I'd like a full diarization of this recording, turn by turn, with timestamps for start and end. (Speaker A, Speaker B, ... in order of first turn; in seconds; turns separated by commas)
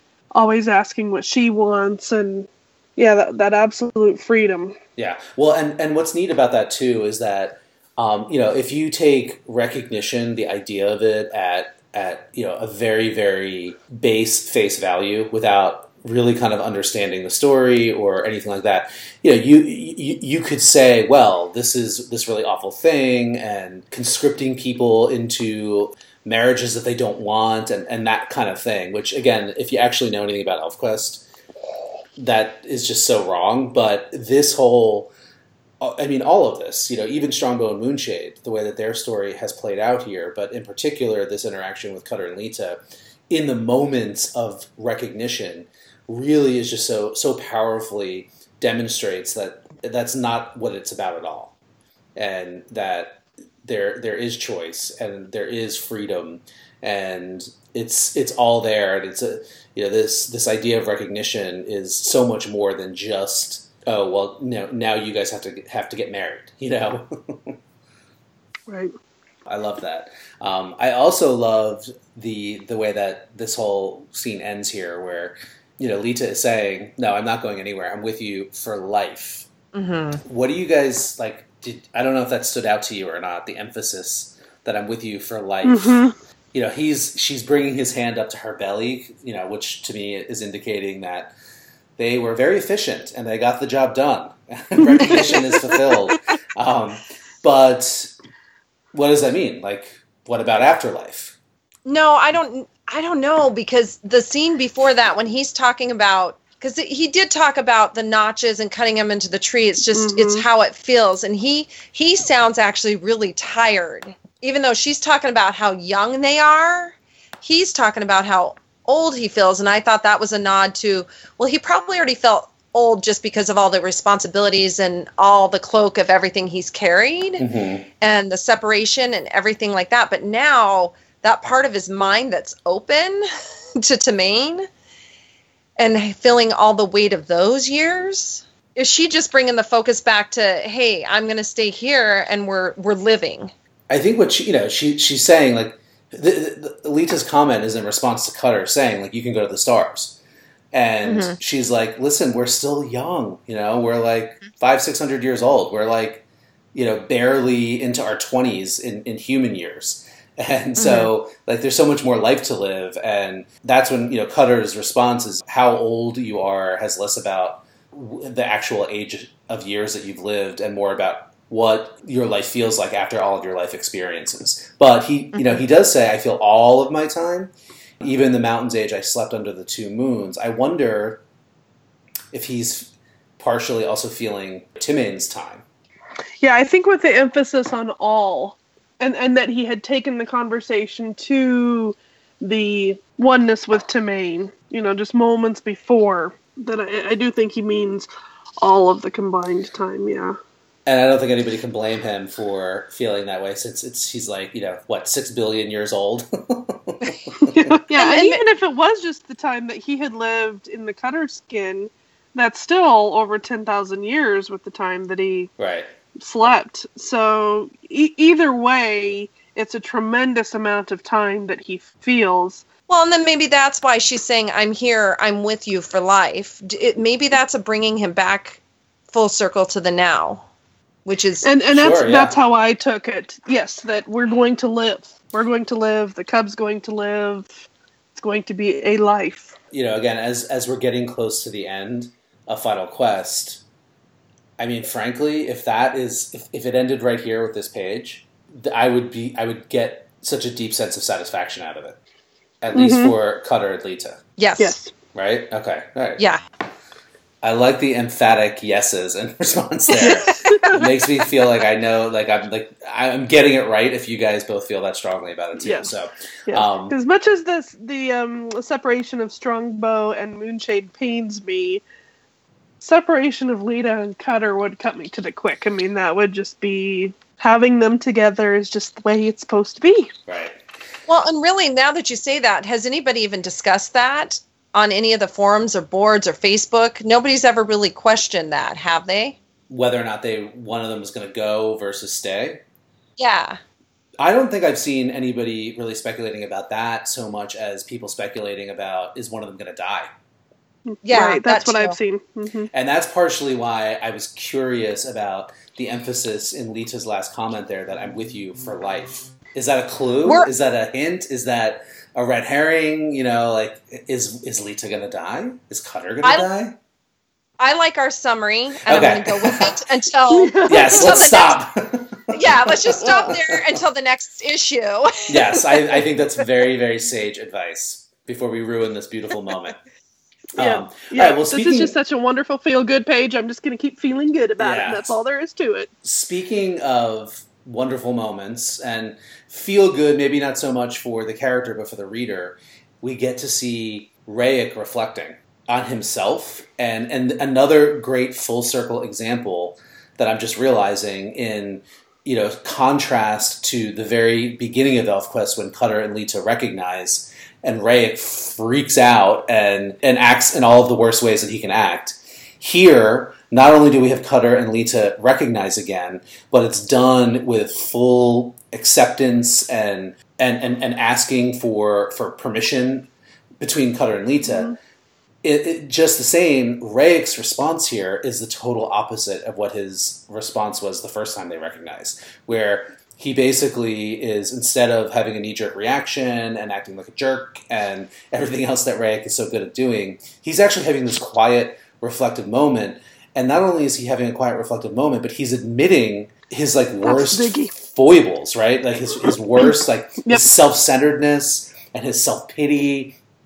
Speaker A: 0.3-4.8, Speaker B: 5.0-31.2, Speaker B: 32.2-35.1, Speaker B: 35.8-42.8, Speaker B: 43.3-51.5, Speaker B: 52.1-67.6, Speaker A: 68.7-68.9, Speaker B: 69.5-79.5, Speaker C: 79.7-80.2, Speaker B: 80.2-91.3, Speaker A: 85.6-86.1, Speaker B: 92.0-98.1, Speaker A: 94.8-96.1, Speaker B: 98.9-101.3, Speaker C: 101.8-127.5, Speaker A: 109.9-110.5, Speaker B: 127.4-127.8, Speaker C: 128.0-133.2, Speaker C: 133.8-134.7, Speaker C: 135.8-143.5, Speaker B: 143.9-150.2, Speaker B: 150.7-177.5, Speaker C: 151.0-151.4, Speaker C: 160.8-161.1, Speaker C: 175.3-175.6, Speaker B: 178.0-181.2, Speaker B: 182.3-185.6, Speaker A: 186.4-198.1, Speaker A: 198.6-200.3, Speaker B: 200.8-207.7, Speaker A: 207.4-215.5, Speaker C: 207.9-208.4, Speaker B: 215.6-215.9, Speaker A: 216.2-222.7, Speaker C: 222.9-228.6, Speaker C: 229.1-230.4, Speaker C: 231.1-231.5, Speaker A: 231.4-239.5, Speaker B: 231.7-232.3, Speaker B: 239.7-243.6, Speaker B: 244.6-252.0, Speaker B: 252.6-254.2, Speaker A: 252.7-253.1, Speaker C: 254.4-254.8, Speaker A: 254.6-254.9, Speaker B: 255.1-256.2, Speaker B: 257.4-266.9, Speaker C: 259.9-260.3, Speaker A: 260.0-260.8, Speaker A: 265.6-265.9, Speaker A: 266.5-271.8, Speaker A: 272.8-280.1, Speaker B: 280.3-280.6, Speaker C: 281.1-289.4, Speaker B: 289.7-292.6, Speaker C: 293.2-293.6, Speaker B: 294.2-300.1, Speaker A: 300.9-302.7, Speaker C: 301.0-302.0, Speaker B: 302.7-316.8, Speaker C: 316.2-316.5, Speaker C: 317.6-321.6, Speaker B: 318.8-319.7, Speaker A: 320.3-321.3, Speaker B: 320.7-323.5, Speaker C: 322.3-326.0, Speaker A: 323.0-323.4, Speaker B: 325.3-329.8, Speaker B: 330.6-331.9, Speaker A: 330.6-335.9, Speaker B: 334.6-335.2, Speaker B: 336.0-374.7, Speaker A: 374.4-374.7, Speaker B: 375.4-403.2, Speaker A: 397.0-397.7